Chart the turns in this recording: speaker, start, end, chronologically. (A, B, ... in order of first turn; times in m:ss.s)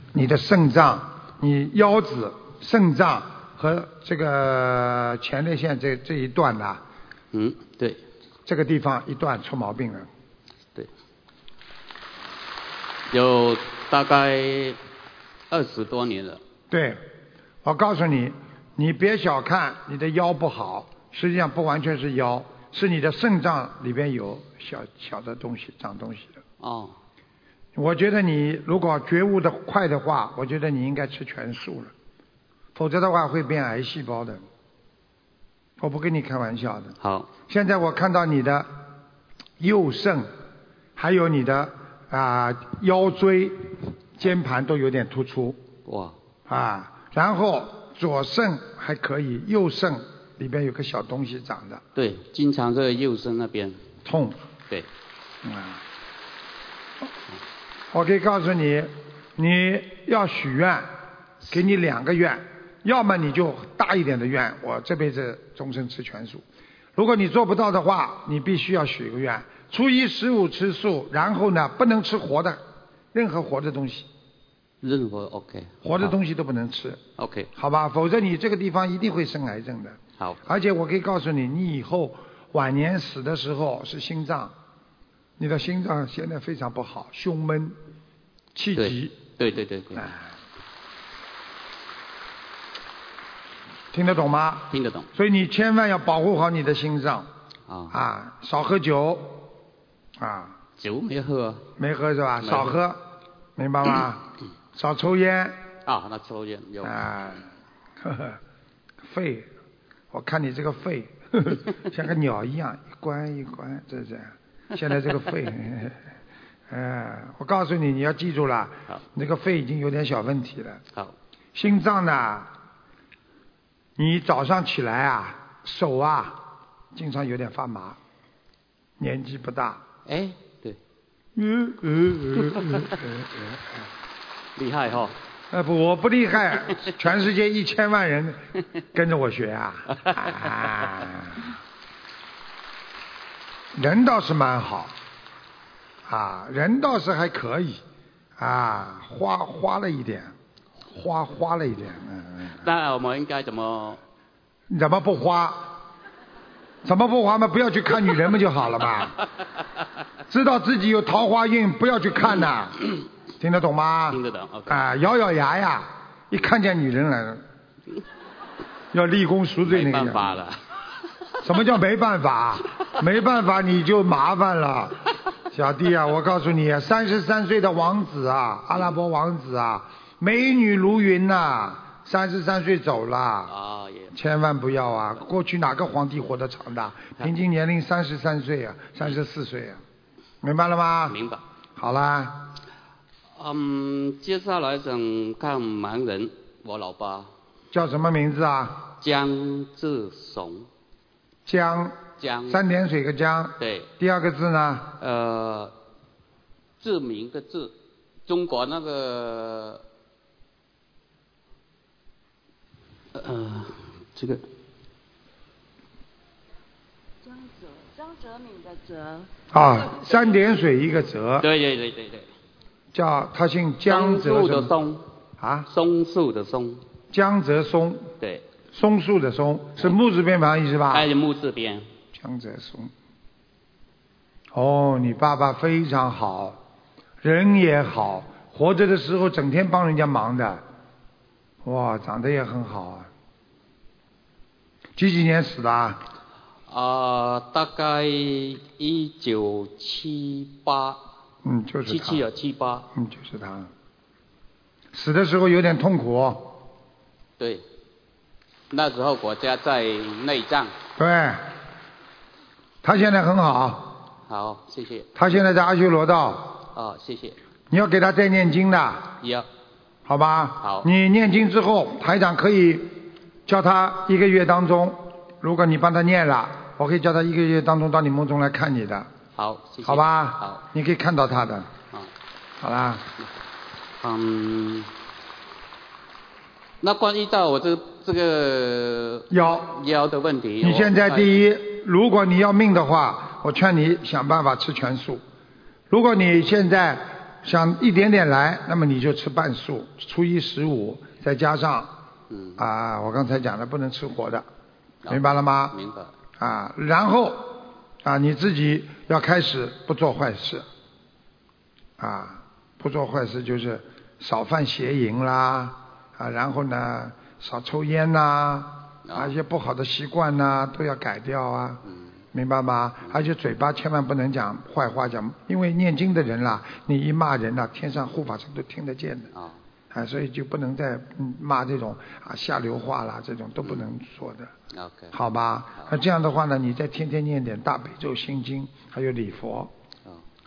0:00.1-0:06.8 A
0:07.3-0:08.0 B
0:08.4-0:10.1 A
0:13.1-0:14.8 B
0:15.5-0:16.4 B
0:16.7-0:17.0 A
0:17.6-0:26.4 A
0:26.6-0:27.0 B
0:27.7-0:31.9 A
0:32.7-0:34.4 A
0:35.8-0:37.0 A
0:37.0-0:37.3 B
0:37.5-0:38.7 A
0:39.6-0:40.3 A
0:41.0-0:45.6 A
0:45.8-0:46.2 B
0:46.5-0:51.8 A
0:52.0-0:53.8 B
0:54.0-0:54.4 A
0:55.4-0:55.8 A
0:57.9-1:00.9 A
1:01.5-1:06.4 A
1:07.0-1:12.6 A
1:13.1-1:14.1 A
1:14.8-1:16.1 B
1:15.8-1:17.0 A
1:17.2-1:17.5 B
1:17.5-1:24.5 A
1:25.4-1:27.8 A
1:28.5-1:29.3 A
1:28.8-1:30.1 B
1:29.9-1:30.3 A
1:33.9-1:37.3 A
1:34.7-1:35.1 B
1:37.7-1:37.9 B
1:37.9-1:39.5 A
1:40.2-1:40.6 A
1:40.8-1:41.6 B
1:41.8-1:43.0 A
1:42.4-1:42.8 B
1:43.6-1:44.2 A
1:44.7-1:45.6 A
1:45.8-1:47.1 B
1:46.8-1:47.5 A
1:48.0-1:48.4 A
1:49.0-1:49.5 A
1:50.1-1:56.0 A
1:56.7-2:00.8 A
2:01.5-2:02.5 A
2:04.0-2:06.4 A
2:06.9-2:08.0 A
2:09.0-2:09.8 A
2:10.0-2:10.8 B
2:11.3-2:13.8 A
2:12.6-2:12.8 B
2:14.6-2:15.2 B
2:15.5-2:18.4 A
2:18.9-2:21.5 A
2:23.7-2:24.9 A
2:26.0-2:27.8 A
2:28.4-2:30.3 A
2:30.9-2:32.6 A
2:32.6-2:34.0 B
2:34.7-2:35.8 A
2:36.8-2:39.2 A
2:40.3-2:42.8 A
2:43.4-2:47.4 A
2:44.1-2:44.8 B
2:48.9-2:50.4 A
2:49.6-2:50.6 B
2:51.4-3:03.5 A
3:03.5-3:04.1 B
3:04.1-3:09.8 A
3:10.4-3:11.2 A
3:11.1-3:11.4 B
3:11.8-3:12.5 A
3:13.4-3:17.3 B
3:17.7-3:18.8 A
3:19.0-3:20.7 B
3:21.4-3:24.9 A
3:22.2-3:22.6 B
3:23.6-3:23.9 B
3:25.0-3:25.7 B
3:26.8-3:27.7 B
3:28.2-3:29.8 B
3:33.1-3:34.4 B
3:39.5-3:41.5 A
3:41.4-3:42.3 B
3:42.9-3:44.7 A
3:43.9-3:45.0 B
3:45.4-3:45.7 A
3:45.7-3:46.8 B
3:47.1-3:48.1 A
3:48.7-3:51.1 A
3:50.9-3:51.8 B
3:52.1-3:52.9 A
3:54.5-3:56.6 A
3:57.2-4:00.6 A
4:01.6-4:03.1 A
4:05.0-4:06.0 A
4:06.7-4:11.0 B
4:11.4-4:12.2 A
4:11.9-4:12.9 B
4:12.9-4:13.7 A
4:14.9-4:16.6 A
4:18.7-4:20.7 B
4:21.0-4:21.5 A
4:22.8-4:24.0 A
4:24.3-4:25.1 B
4:25.1-4:26.6 A
4:26.7-4:27.4 B
4:27.7-4:29.1 A
4:29.2-4:29.5 B
4:30.0-4:39.1 A
4:39.4-4:40.6 B
4:39.8-4:41.7 A
4:42.6-4:43.0 A
4:44.0-4:44.9 B
4:46.8-4:51.4 B
4:49.3-4:49.7 A
4:50.6-4:55.2 A
4:55.9-5:01.9 A
5:02.3-5:02.6 B
5:02.6-5:04.4 A
5:05.0-5:06.1 B
5:05.1-5:05.7 A
5:06.4-5:10.6 A
5:12.0-5:29.3 A
5:19.0-5:19.3 B
5:29.3-5:29.6 B
5:29.9-5:34.5 A
5:34.7-5:35.1 B
5:35.1-5:39.7 A